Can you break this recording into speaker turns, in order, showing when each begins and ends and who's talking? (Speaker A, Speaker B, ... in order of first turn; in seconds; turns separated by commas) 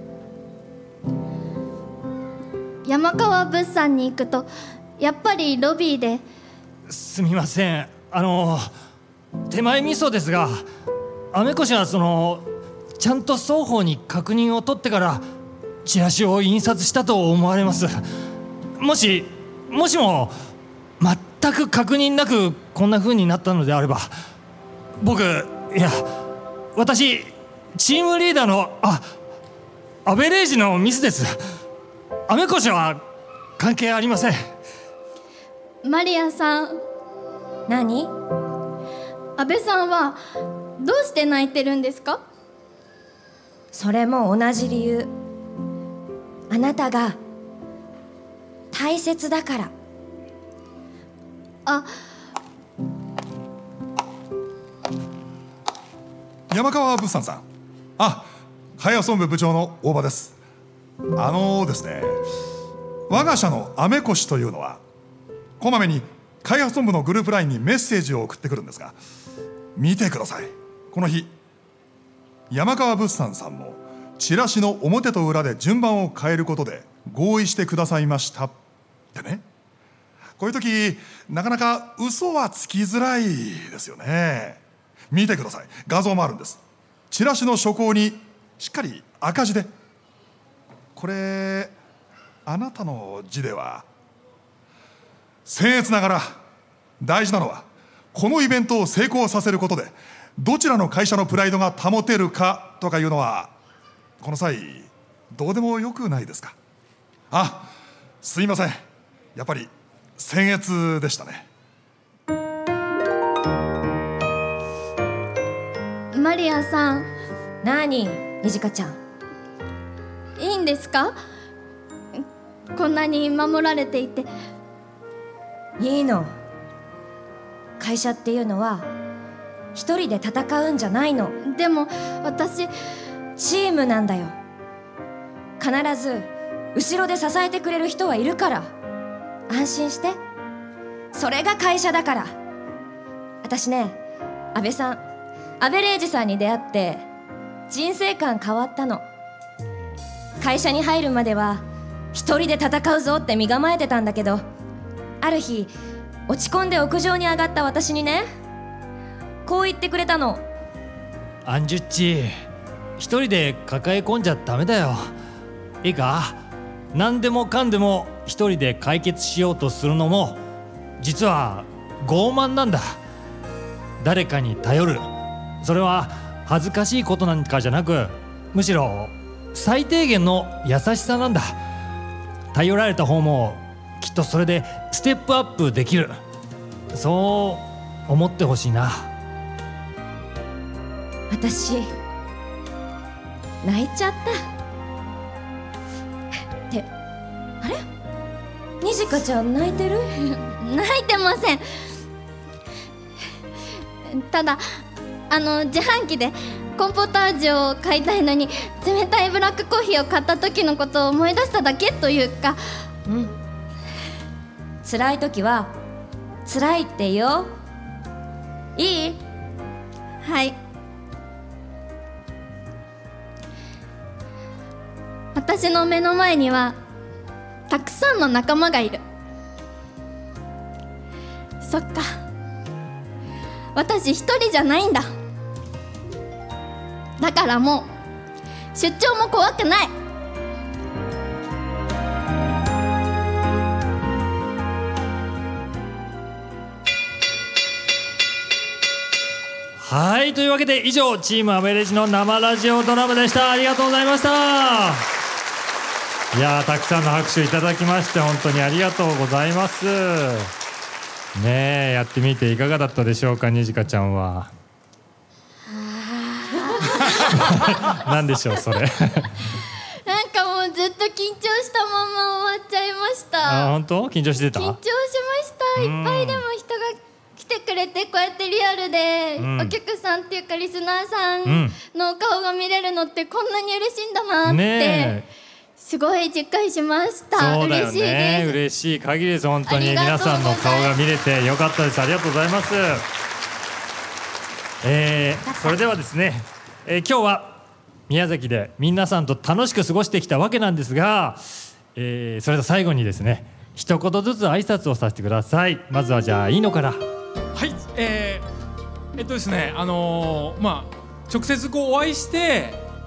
Speaker A: 2.9-4.5, Speaker A: 5.0-6.2, Speaker B: 6.9-8.7, Speaker B: 9.5-10.7, Speaker B: 11.3-12.4, Speaker B: 13.0-15.2, Speaker B: 15.8-18.0, Speaker B: 18.8-20.4, Speaker B: 21.0-24.1, Speaker B: 25.0-26.1, Speaker B: 26.8-29.1, Speaker B: 30.1-31.3, Speaker B: 32.3-33.0, Speaker B: 33.6-34.4, Speaker A: 35.8-36.8, Speaker C: 37.7-38.1, Speaker A: 39.4-40.2, Speaker A: 40.8-42.2, Speaker C: 43.7-45.1, Speaker C: 46.5-47.2, Speaker C: 48.7-49.7, Speaker D: 56.5-57.5, Speaker D: 58.0-60.4, Speaker D: 61.2-62.2, Speaker D: 63.1-64.8, Speaker D: 65.6-69.0, Speaker D: 69.8-71.3, Speaker D: 72.5-78.5, Speaker D: 79.1-79.4, Speaker D: 80.4-89.7, Speaker D: 91.0-91.7, Speaker D: 92.5-93.9, Speaker D: 95.5-96.4, Speaker D: 97.0-103.5, Speaker D: 104.2-106.6, Speaker D: 107.3-107.7, Speaker D: 108.2-108.8, Speaker D: 109.3-111.5, Speaker A: 116.1-117.1, Speaker C: 117.6-119.0, Speaker A: 120.4-121.2, Speaker A: 122.8-124.3, Speaker C: 125.8-126.3, Speaker C: 127.8-128.9, Speaker C: 129.8-131.4, Speaker A: 131.4-132.7, Speaker C: 133.4-134.3, Speaker C: 135.6-138.7, Speaker C: 139.5-140.2, Speaker C: 141.1-142.3, Speaker C: 143.4-144.0, Speaker C: 144.6-145.0, Speaker C: 145.6-147.0, Speaker C: 147.7-149.1, Speaker C: 150.4-154.4, Speaker C: 155.2-155.7, Speaker C: 156.3-158.3, Speaker C: 159.4-160.4, Speaker B: 161.5-162.3, Speaker B: 163.0-165.1, Speaker B: 165.8-166.4, Speaker B: 166.9-170.4, Speaker B: 171.0-173.0, Speaker B: 174.0-175.1, Speaker B: 175.6-181.6, Speaker B: 182.5-186.2, Speaker B: 186.9-189.1, Speaker C: 191.3-191.9, Speaker C: 193.6-194.4, Speaker C: 198.8-200.1, Speaker A: 200.3-201.6, Speaker A: 204.1-204.6, Speaker A: 205.3-212.6, Speaker C: 213.1-213.3, Speaker C: 214.8-215.7, Speaker C: 216.5-217.5, Speaker C: 218.8-219.2, Speaker A: 220.2-220.6, Speaker A: 225.3-226.8, Speaker A: 227.7-229.0, Speaker A: 231.6-232.1, Speaker A: 233.8-235.1, Speaker A: 237.2-237.9, Speaker A: 238.8-239.9, Speaker B: 249.8-255.1, Speaker B: 256.3-260.5, Speaker B: 261.4-264.5, Speaker C: 265.8-267.0, Speaker A: 266.8-268.1, Speaker B: 267.0-269.5, Speaker A: 270.1-273.7, Speaker B: 273.4-274.8, Speaker A: 274.5-285.2, Speaker B: 275.8-276.4, Speaker B: 279.4-279.8, Speaker B: 281.5-281.8, Speaker B: 284.4-285.3, Speaker A: 285.8-288.6, Speaker B: 287.4-293.1, Speaker A: 289.7-290.9, Speaker B: 294.8-307.0, Speaker E: 307.6-308.4, Speaker E: 309.2-312.8